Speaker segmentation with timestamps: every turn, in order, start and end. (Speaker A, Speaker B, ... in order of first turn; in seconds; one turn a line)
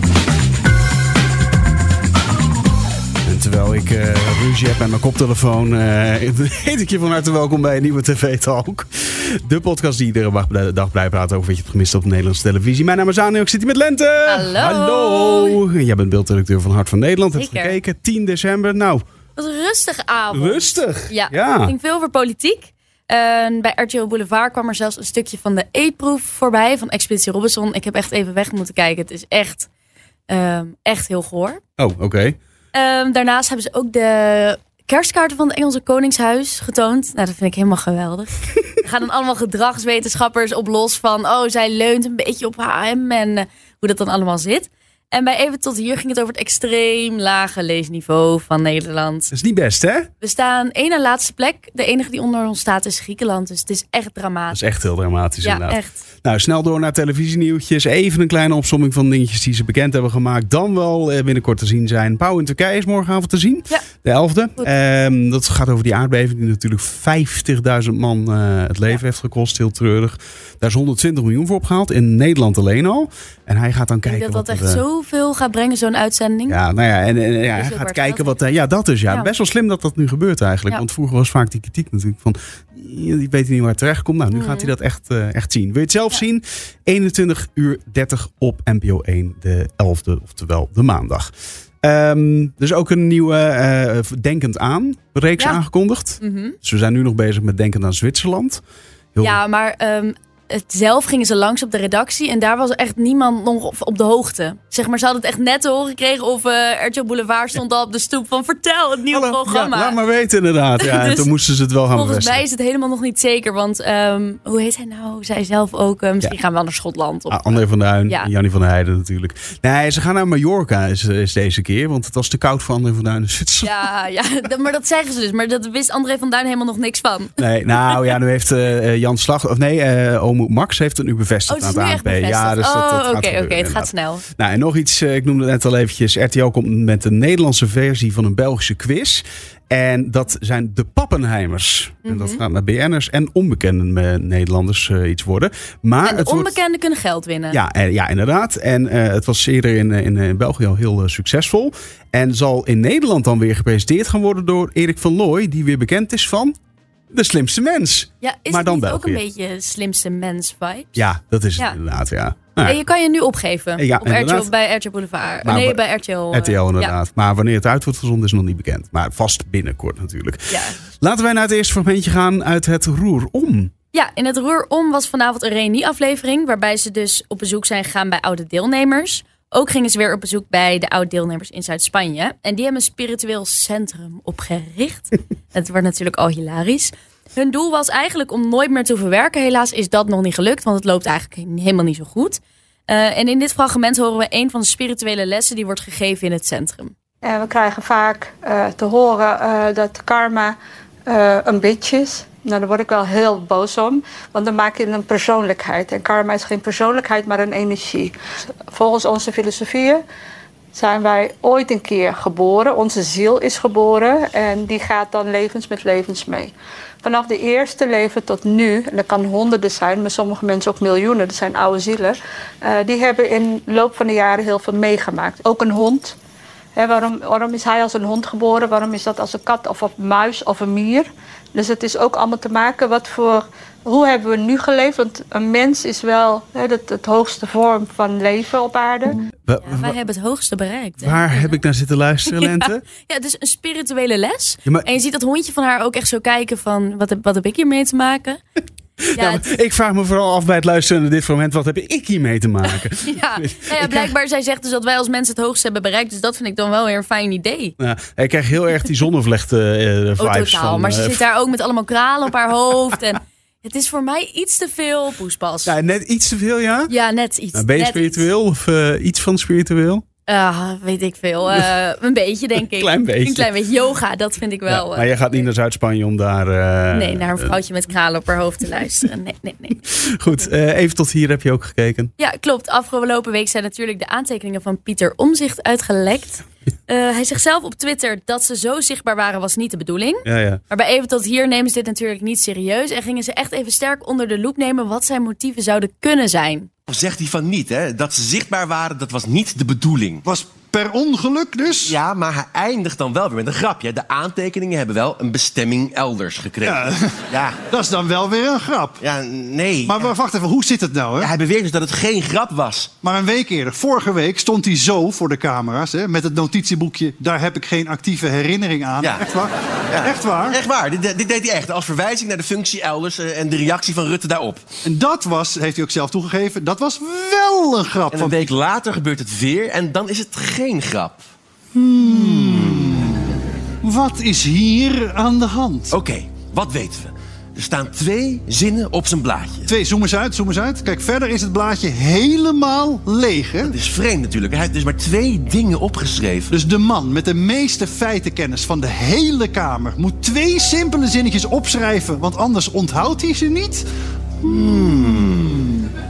Speaker A: 3.2-19.0
Speaker B: 14.2-15.6
Speaker B: 17.3-17.8
Speaker B: 19.4-29.7
Speaker A: 20.3-21.7
Speaker B: 30.3-31.6
Speaker A: 31.8-32.4
Speaker B: 32.7-49.3
Speaker A: 49.3-50.1
Speaker B: 50.2-54.6
Speaker A: 54.5-74.8
Speaker B: 55.4-56.0
Speaker B: 74.0-76.6
Speaker A: 76.5-91.3
Speaker B: 77.5-78.3
Speaker B: 84.3-84.7
Speaker A: 91.8-98.6
Speaker B: 96.2-96.5
Speaker B: 99.2-110.0
Speaker A: 109.1-112.4
Speaker B: 110.8-111.3
Speaker B: 111.9-118.3
Speaker A: 117.3-123.7
Speaker B: 123.6-127.4
Speaker A: 127.4-146.6
Speaker B: 131.5-134.2
Speaker B: 142.0-142.4
Speaker B: 146.0-147.6
Speaker A: 147.5-156.5
Speaker A: 157.1-159.2
Speaker B: 158.2-161.0
Speaker A: 160.9-162.8
Speaker B: 162.6-166.9
Speaker A: 163.8-164.5
Speaker A: 165.4-173.7
Speaker B: 170.5-170.8
Speaker B: 173.9-196.9
Speaker C: 197.2-200.6
Speaker C: 201.1-208.1
Speaker C: 208.7-210.0
Speaker C: 210.7-216.5
Speaker C: 217.0-226.2
Speaker C: 226.8-239.2
Speaker B: 239.1-241.6
Speaker A: 239.5-239.9
Speaker A: 241.0-242.8
Speaker B: 242.2-248.4
Speaker A: 249.1-254.1
Speaker B: 249.2-249.5
Speaker B: 252.6-257.8
Speaker A: 257.8-261.2
Speaker B: 260.2-265.7
Speaker A: 265.6-266.9
Speaker B: 266.9-268.3
Speaker A: 267.5-270.0
Speaker B: 270.3-275.4
Speaker A: 272.7-273.5
Speaker A: 274.7-277.5
Speaker B: 276.9-279.8
Speaker A: 279.9-282.1
Speaker B: 282.2-296.7
Speaker A: 290.2-290.6
Speaker D: 296.9-300.2
Speaker E: 300.2-302.0
Speaker D: 301.8-307.6
Speaker E: 306.6-309.0
Speaker D: 309.0-310.1
Speaker E: 309.8-311.3
Speaker D: 311.2-312.9
Speaker E: 313.0-320.6
Speaker D: 319.9-324.6
Speaker E: 324.8-328.5
Speaker D: 328.1-331.3
Speaker E: 331.7-333.2
Speaker D: 332.1-333.0
Speaker E: 333.8-336.0
Speaker D: 335.9-339.7
Speaker E: 339.7-343.7
Speaker D: 343.6-346.5
Speaker E: 346.5-353.9
Speaker D: 354.4-355.7